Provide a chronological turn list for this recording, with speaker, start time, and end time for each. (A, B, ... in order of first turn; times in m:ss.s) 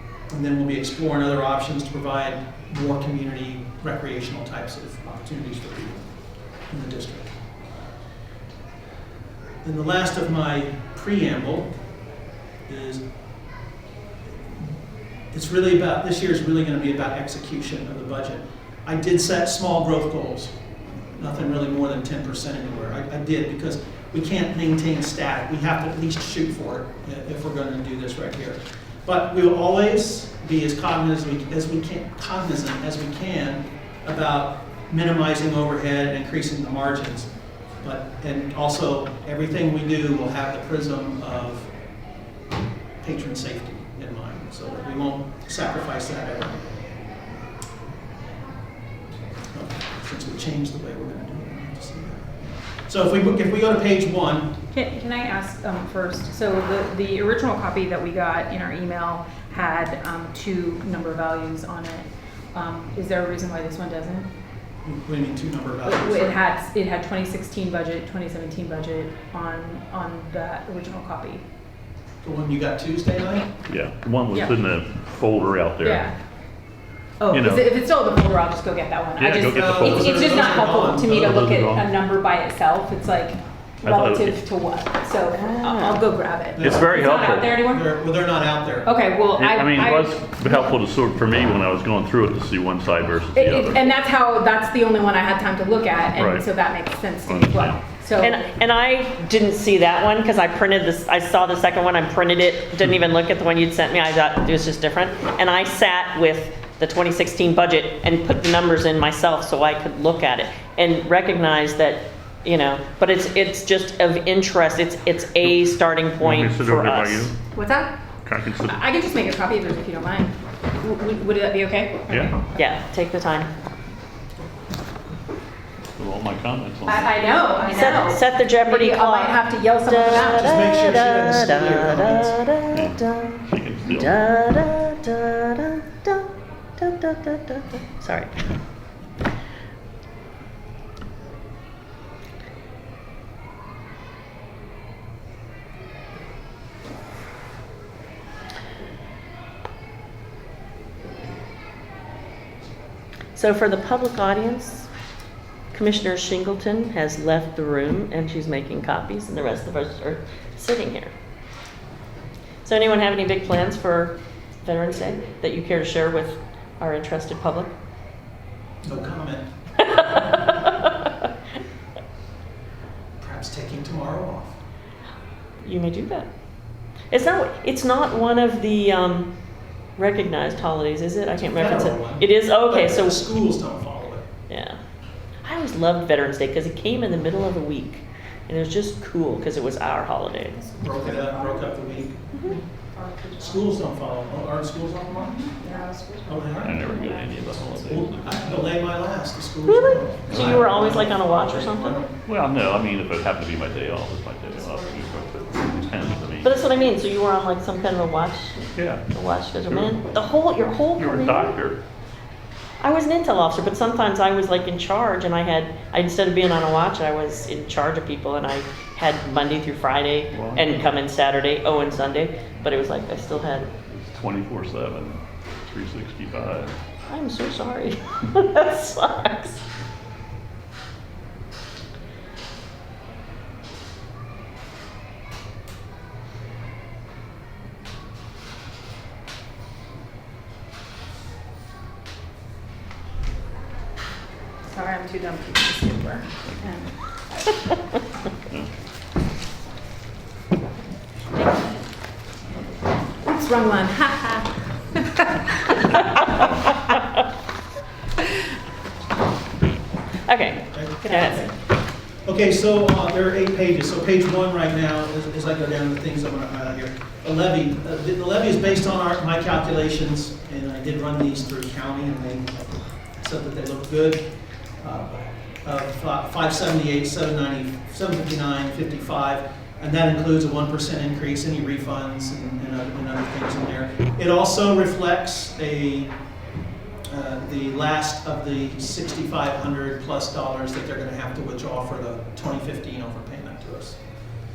0:00.3-0:06.0 A
0:06.7-0:07.3 A
0:09.6-0:11.7 A
0:12.7-0:13.0 A
0:15.3-0:20.6 A
0:21.1-0:37.3 A
0:37.8-0:41.7 A
0:43.0-0:46.7 A
0:49.5-0:54.6 A
0:54.7-1:04.3 B
1:04.8-1:06.4 A
1:05.8-1:11.4 B
1:12.2-1:13.5 A
1:13.7-1:16.1 C
1:15.8-1:16.1 B
1:17.2-1:27.8 B
1:17.3-1:17.7 C
1:19.2-1:20.5 C
1:19.4-1:21.4 A
1:21.0-1:21.9 C
1:23.8-1:24.4 C
1:25.3-1:26.0 D
1:26.6-1:28.9 A
1:26.6-1:27.6 C
1:28.8-1:30.2 B
1:29.4-1:33.9 C
1:33.4-1:38.4 B
1:36.2-1:36.5 C
1:37.3-1:37.8 C
1:38.2-1:57.3 D
1:56.2-1:57.4 C
1:57.5-1:58.0 B
1:58.2-1:58.8 C
1:58.6-2:02.5 B
2:02.1-2:02.4 C
2:02.6-2:03.5 D
2:06.0-2:07.2 C
2:06.9-2:11.0 B
2:07.6-2:18.3 D
2:10.4-2:12.4 A
2:12.7-2:14.2 C
2:33.4-2:34.9 D
2:35.7-2:41.1 D
2:42.6-2:47.7 D
2:48.8-2:49.5 A
2:49.9-2:51.1 D
2:53.2-2:54.6 A
2:55.6-2:56.3 D
2:57.1-2:59.3 D
3:00.0-3:03.3 D
3:01.4-3:04.3 A
3:04.5-3:04.8 D
3:05.4-3:10.7 D
3:10.8-3:12.2 A
3:13.0-3:13.4 B
3:13.3-3:15.5 A
3:15.4-3:16.2 B
3:16.2-3:17.0 A
3:16.6-3:18.7 C
3:17.8-3:22.2 A
3:19.7-3:22.0 D
3:20.3-3:20.6 C
3:22.3-3:26.5 C
3:26.4-3:28.6 D
3:28.8-3:29.0 C
3:29.1-3:31.5 D
3:29.6-3:30.0 C
3:31.0-3:31.8 C
3:32.8-3:43.7 D
3:40.3-3:40.8 C
3:43.7-3:46.8 C
3:47.1-3:49.6 D
4:04.6-4:07.4 B
4:13.2-4:16.5 B
4:20.3-4:21.4 D
4:20.7-4:21.5 A
4:22.2-4:34.3 A
4:34.8-4:46.1 A
4:47.1-4:54.0 A